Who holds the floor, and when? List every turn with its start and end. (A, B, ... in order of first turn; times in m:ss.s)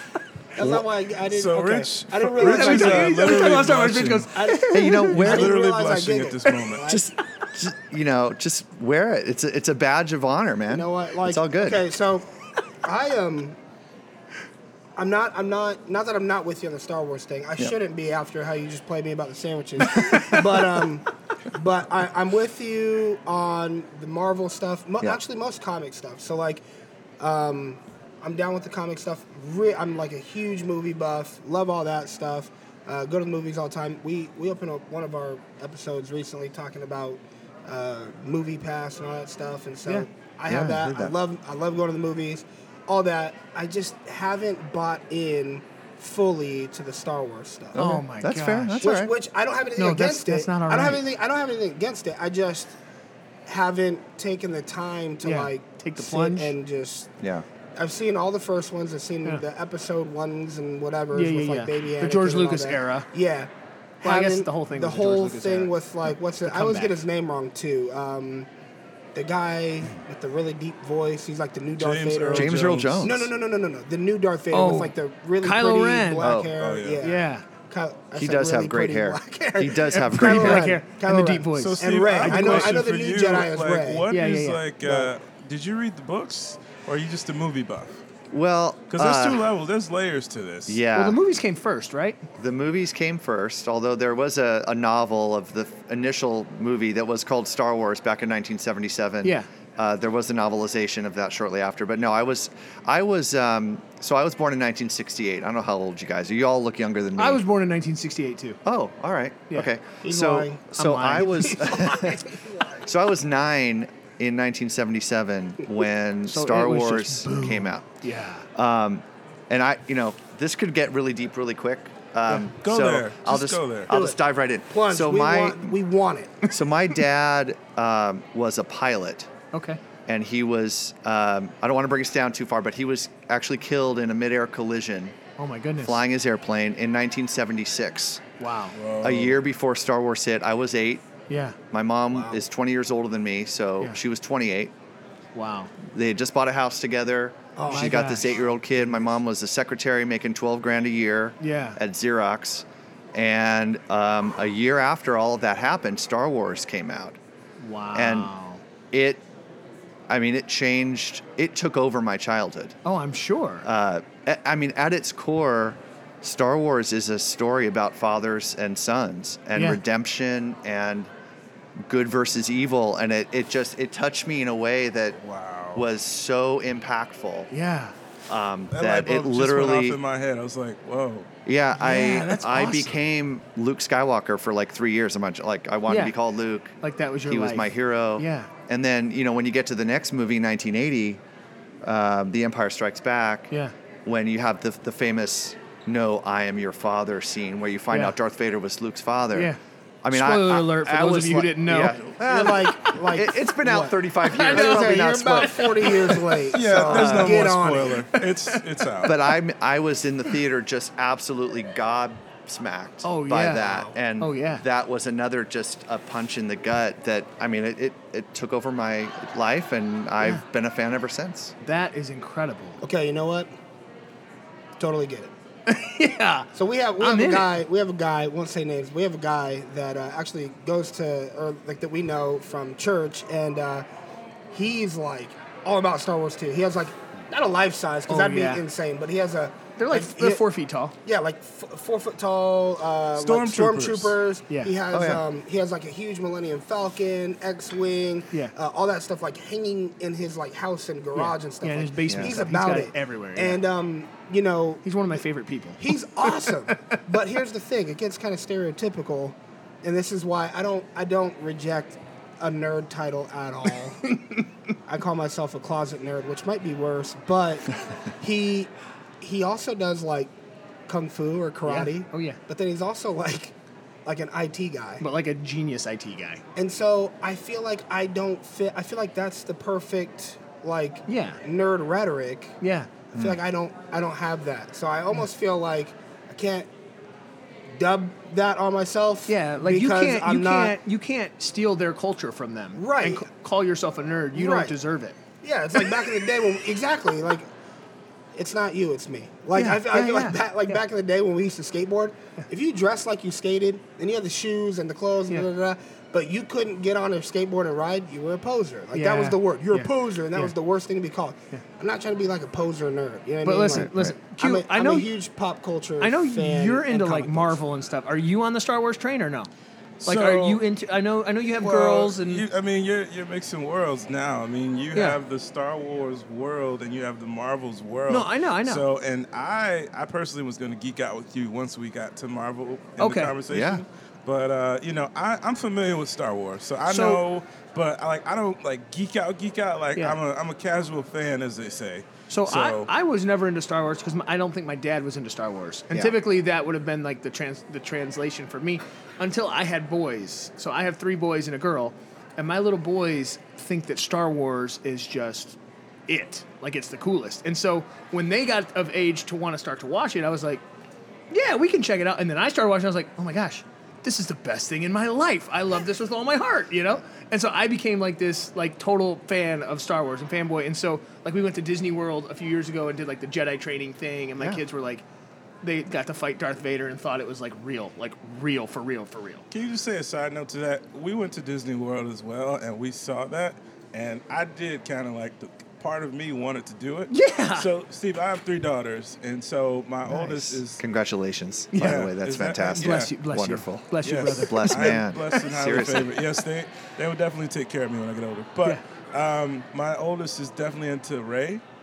0:00.6-0:03.7 A
0:00.6-0:00.8 B
0:01.2-0:04.3 C
0:02.4-0:05.3 D
0:04.3-0:07.1 A
0:04.7-0:05.6 B
0:05.1-0:06.9 C
0:06.9-0:11.8 B
0:10.7-0:12.3 A
0:12.8-0:13.6 A
0:15.0-0:26.6 A
0:20.0-0:20.4 D
0:27.2-0:47.8 A
0:40.5-0:41.1 B
0:47.7-0:49.1 B
0:47.8-0:48.9 D
0:48.8-0:52.8 A
0:49.8-0:51.0 D
0:53.5-0:57.1 A
0:55.2-0:56.5 D
0:57.8-1:03.5 A
1:01.1-1:03.1 D
1:04.0-1:08.5 A
1:04.0-1:05.7 D
1:06.4-1:06.9 D
1:09.1-1:24.1 A
1:11.8-1:13.1 C
1:12.3-1:13.3 B
1:14.5-1:16.4 D
1:16.2-1:16.5 B
1:16.6-1:17.0 C
1:17.0-1:17.5 D
1:18.2-1:20.8 B
1:19.8-1:22.7 D
1:21.6-1:27.9 C
1:24.1-1:24.6 D
1:24.8-1:25.1 A
1:28.3-1:29.5 B
1:28.9-1:30.8 C
1:30.7-1:31.2 B
1:30.9-1:32.2 D
1:32.4-1:47.4 B
1:47.2-1:48.6 D
1:48.6-1:52.2 B
1:50.0-1:52.8 A
1:50.8-1:51.6 D
1:52.8-1:57.9 B
1:56.3-1:58.5 D
1:58.5-2:05.8 B
2:02.6-2:03.9 C
2:03.9-2:04.2 A
2:04.7-2:06.5 A
2:06.5-2:09.3 B
2:09.5-2:09.8 D
2:10.1-2:15.2 B
2:15.4-2:16.0 D
2:15.8-2:18.2 B
2:18.4-2:18.8 D
2:18.7-2:19.4 C
2:19.0-2:21.1 B
2:21.3-2:21.6 D
2:21.7-2:24.7 B
2:22.1-2:22.4 A
2:25.4-2:25.7 D
2:25.9-2:37.2 B
2:27.6-2:28.4 A
2:27.7-2:28.5 D
2:31.4-2:31.8 D
2:37.6-2:38.6 D
2:38.0-2:38.3 B
2:38.9-2:39.2 B
2:40.1-2:42.8 B
2:42.8-2:43.7 D
2:43.6-2:51.1 B
2:49.6-2:49.8 D
2:51.8-2:55.2 B
2:55.2-2:55.8 C
2:55.7-2:57.5 B
2:57.5-2:58.0 D
2:58.3-3:00.0 B
2:58.7-3:01.3 C
3:01.5-3:06.7 B
3:01.8-3:03.0 D
3:05.9-3:06.1 D
3:06.8-3:08.5 D
3:07.3-3:11.2 B
3:11.8-3:13.5 B
3:14.0-3:25.9 B
3:20.1-3:23.0 D
3:22.2-3:28.1 A
3:24.2-3:27.4 D
3:26.5-3:29.2 C
3:26.6-3:27.3 B
3:28.1-3:28.9 D
3:29.0-3:41.5 B
3:33.0-3:34.6 D
3:41.6-3:42.8 D
3:42.8-3:43.5 A
3:44.8-3:45.3 A
3:45.6-3:47.5 D
3:46.5-3:53.9 A
3:54.5-4:00.4 A
3:58.1-3:58.6 D
3:59.8-4:00.9 D
4:01.0-4:14.8 A
4:03.2-4:04.2 C
4:04.5-4:04.8 D
4:04.9-4:05.2 B
4:11.1-4:13.6 D
4:12.1-4:12.4 B
4:14.8-4:17.0 D
4:15.8-4:24.1 A
4:24.0-4:24.5 D
4:24.9-4:30.3 A
4:30.9-4:35.0 A
4:31.6-4:32.4 D
4:35.0-4:36.4 D
4:36.6-4:42.5 A
4:41.1-4:41.4 D
4:42.6-4:42.9 D
4:43.1-4:46.7 A
4:47.8-4:50.8 A
4:49.3-4:55.2 D
4:52.8-4:53.2 A
4:54.3-4:54.8 A
4:55.4-4:57.5 A
4:55.8-4:56.0 D
4:58.4-5:17.6 A
4:59.5-5:00.8 D
5:08.9-5:10.5 D
5:13.4-5:15.1 D
5:13.7-5:14.1 B
5:16.0-5:19.5 D
5:20.0-5:20.6 C
5:20.0-5:22.5 D
5:21.6-5:42.9 C
5:24.9-5:25.2 D
5:28.1-5:28.8 D
5:33.0-5:33.4 D
5:33.5-5:33.8 B
5:36.9-5:37.2 D
5:42.3-6:00.6 D
6:01.3-6:15.0 D
6:14.4-6:14.6 B
6:15.6-6:19.5 D
6:19.5-6:30.8 C
6:27.1-6:27.7 D
6:30.1-6:36.1 B
6:31.8-6:33.1 C
6:32.8-6:35.4 D
6:34.0-6:41.6 C